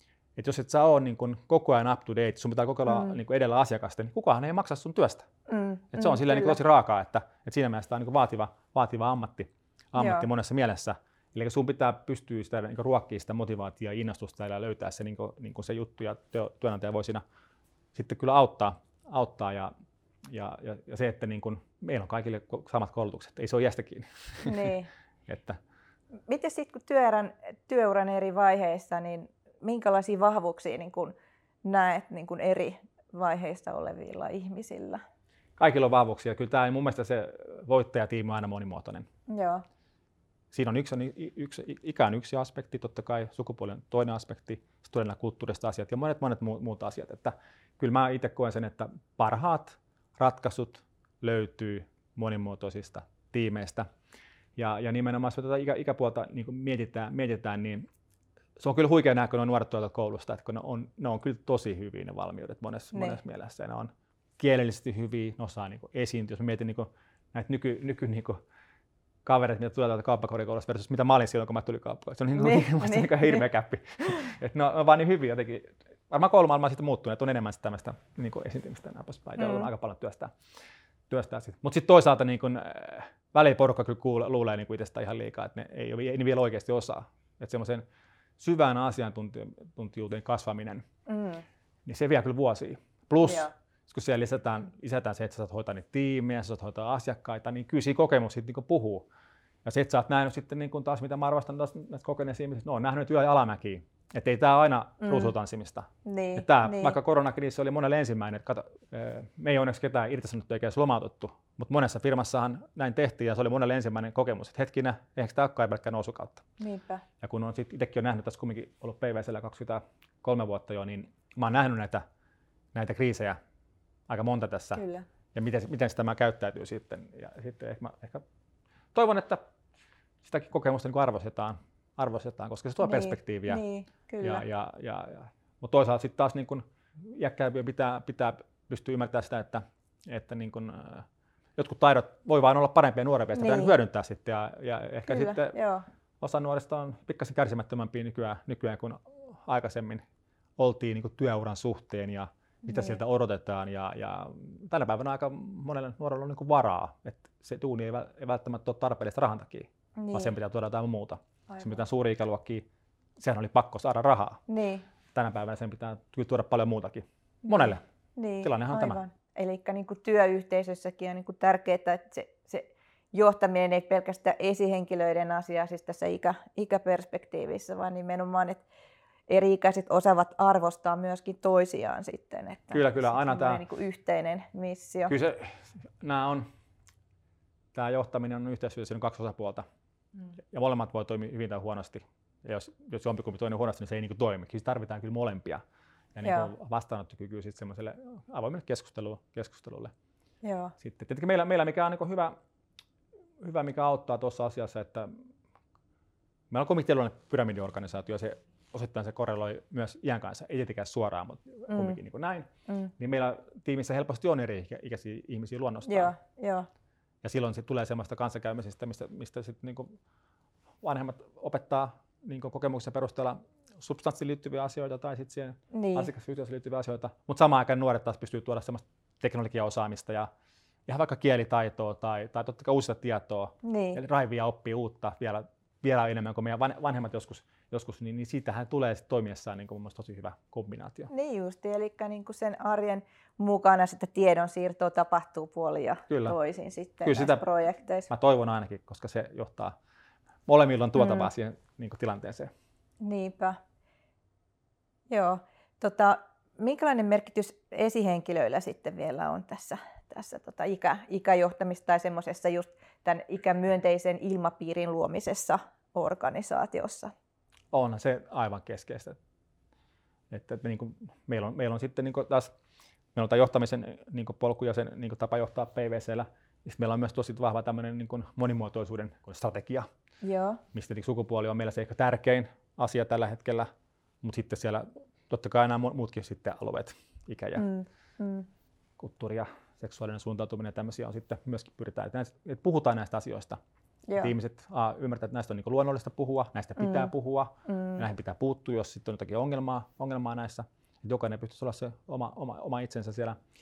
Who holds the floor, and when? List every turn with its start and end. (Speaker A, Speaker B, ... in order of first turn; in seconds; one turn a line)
Speaker A: 0.3-5.3
Speaker B: 2.9-3.2
Speaker B: 5.5-6.6
Speaker A: 5.9-17.2
Speaker B: 10.0-10.3
Speaker A: 17.9-19.7
Speaker A: 20.2-24.7
Speaker B: 24.4-24.9
Speaker A: 25.3-25.6
Speaker B: 26.3-35.0
Speaker A: 35.6-39.1
Speaker B: 39.3-39.6
Speaker A: 40.5-53.9
Speaker A: 54.5-57.8
Speaker A: 58.6-68.4
Speaker B: 62.9-63.2
Speaker A: 69.2-80.3
Speaker B: 72.3-73.5
Speaker B: 79.4-79.7
Speaker A: 81.1-87.8
Speaker A: 88.4-90.8
Speaker B: 91.1-91.4
Speaker A: 91.8-99.1
Speaker B: 93.2-93.5
Speaker A: 99.6-116.4
Speaker B: 105.0-105.3
Speaker B: 106.0-107.0
Speaker B: 116.6-117.0
Speaker A: 117.2-122.0
Speaker A: 122.7-123.4
Speaker A: 124.1-124.8
Speaker B: 124.8-125.0
Speaker A: 125.3-128.2
Speaker A: 128.9-129.4
Speaker A: 130.2-133.6
Speaker B: 132.8-134.4
Speaker A: 134.2-145.5
Speaker B: 143.3-143.7
Speaker B: 145.1-145.8
Speaker A: 146.2-150.0
Speaker A: 150.6-162.6
Speaker B: 152.7-153.0
Speaker B: 160.0-160.3
Speaker B: 161.5-161.8
Speaker A: 163.2-164.4
Speaker B: 164.5-164.8
Speaker A: 165.1-167.8
Speaker B: 167.4-178.6
Speaker A: 168.4-169.0
Speaker B: 179.3-185.1
Speaker A: 182.7-183.6
Speaker A: 185.1-186.5
Speaker A: 187.7-189.6
Speaker A: 190.5-195.6
Speaker A: 196.1-199.9
Speaker B: 196.2-196.5
Speaker B: 200.4-200.7
Speaker A: 200.8-202.3
Speaker A: 203.4-205.1
Speaker A: 206.5-216.1
Speaker B: 211.7-212.0
Speaker B: 215.9-216.7
Speaker A: 217.2-219.9
Speaker A: 220.8-230.3
Speaker B: 225.7-226.1
Speaker A: 230.9-241.1
Speaker B: 233.6-234.0
Speaker B: 241.1-248.1
Speaker A: 246.1-246.4
Speaker A: 247.0-247.4
Speaker A: 248.1-249.7
Speaker A: 250.5-252.5
Speaker B: 251.0-251.3
Speaker B: 253.0-253.6
Speaker B: 255.1-267.1
Speaker A: 267.7-269.2
Speaker A: 270.3-272.5
Speaker A: 273.1-279.9
Speaker B: 280.2-280.6
Speaker A: 280.7-283.7
Speaker A: 284.2-287.6
Speaker B: 287.6-288.5
Speaker A: 289.0-293.6
Speaker B: 294.1-294.3
Speaker A: 294.2-303.4
Speaker B: 296.8-297.1
Speaker B: 297.6-298.1